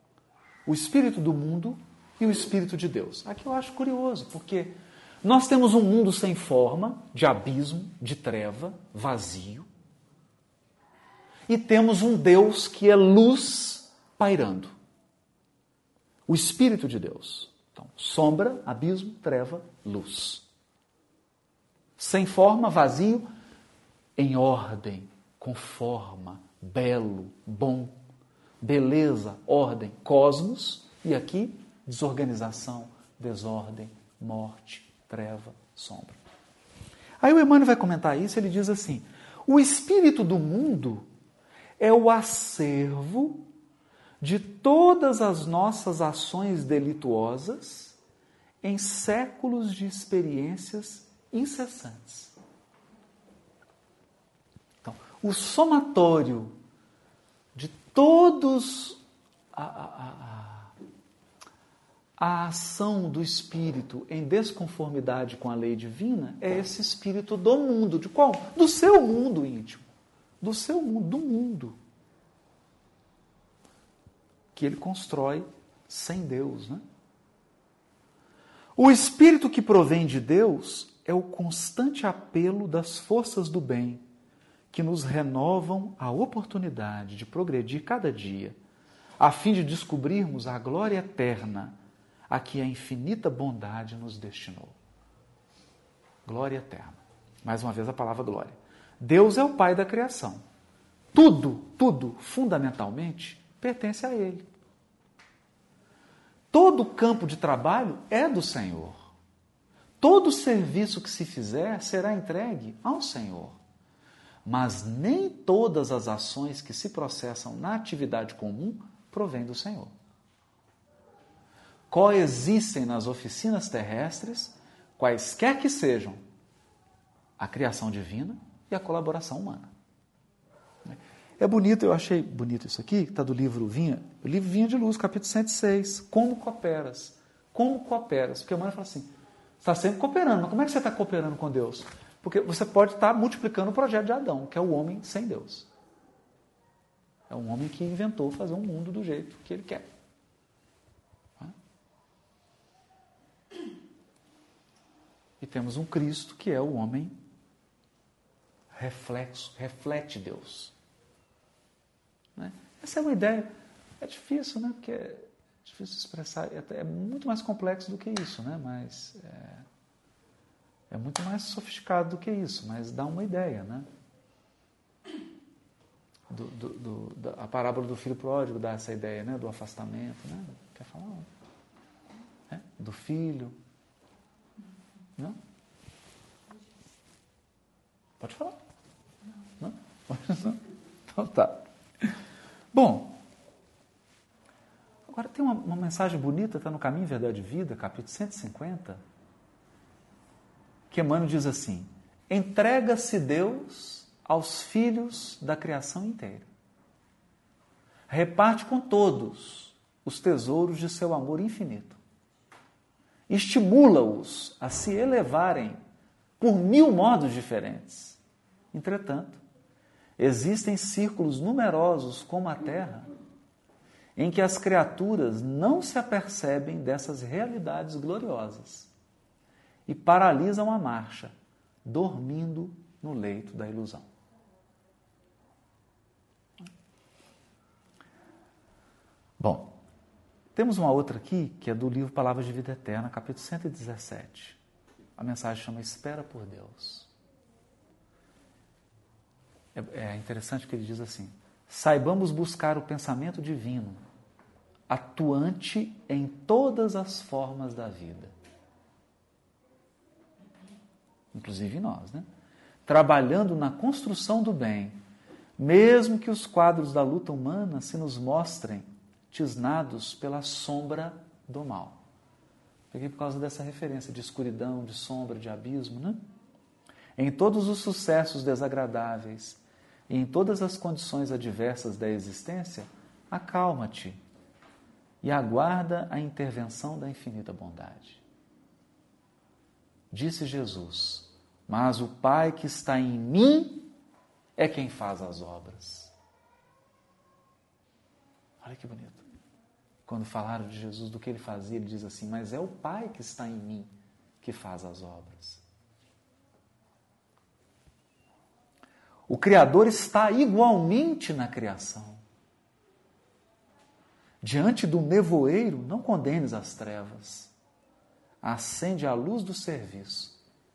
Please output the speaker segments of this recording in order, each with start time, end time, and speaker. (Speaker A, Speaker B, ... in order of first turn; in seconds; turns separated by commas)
Speaker A: 0.7-9.7, Speaker A: 11.5-14.8, Speaker A: 16.3-20.4, Speaker A: 22.0-23.3, Speaker A: 24.2-28.0, Speaker A: 28.6-36.2, Speaker A: 37.2-41.1, Speaker A: 41.8-43.5, Speaker A: 44.2-48.0, Speaker A: 48.6-52.4, Speaker A: 54.8-56.6, Speaker A: 57.5-59.0, Speaker A: 59.5-60.7, Speaker A: 62.2-69.9, Speaker A: 70.4-71.8, Speaker A: 74.5-76.8, Speaker A: 78.8-84.0, Speaker A: 84.7-88.6, Speaker A: 89.2-91.8, Speaker A: 92.3-94.8, Speaker A: 96.2-100.4, Speaker A: 101.1-104.5, Speaker A: 106.5-109.1, Speaker A: 110.0-113.6, Speaker A: 114.5-119.9, Speaker A: 121.9-126.2, Speaker A: 127.4-129.7, Speaker A: 130.8-139.1, Speaker A: 139.6-145.7, Speaker A: 147.3-149.9, Speaker A: 155.4-157.2, Speaker A: 158.7-160.7, Speaker A: 162.4-169.7, Speaker A: 170.9-173.9, Speaker A: 176.3-181.3, Speaker A: 182.5-183.6, Speaker A: 188.2-188.6, Speaker A: 189.6-192.2, Speaker A: 192.7-193.2, Speaker A: 195.1-199.0, Speaker A: 200.9-206.5, Speaker A: 208.1-212.0, Speaker A: 213.3-215.8, Speaker A: 216.4-218.2, Speaker A: 218.7-219.4, Speaker A: 220.2-223.1, Speaker A: 224.2-228.9, Speaker A: 229.9-231.3, Speaker A: 231.8-234.1, Speaker A: 239.4-239.8, Speaker A: 240.6-244.6, Speaker A: 245.2-247.1, Speaker A: 249.8-254.0, Speaker A: 254.9-258.3, Speaker A: 261.3-262.3, Speaker A: 262.9-265.0, Speaker A: 265.6-272.0, Speaker A: 272.9-276.2, Speaker A: 277.2-284.2, Speaker A: 285.2-288.2, Speaker A: 290.1-293.9, Speaker A: 294.6-296.1, Speaker A: 298.6-299.2, Speaker A: 300.1-305.6, Speaker A: 309.3-312.2, Speaker A: 314.4-317.5, Speaker A: 318.4-320.4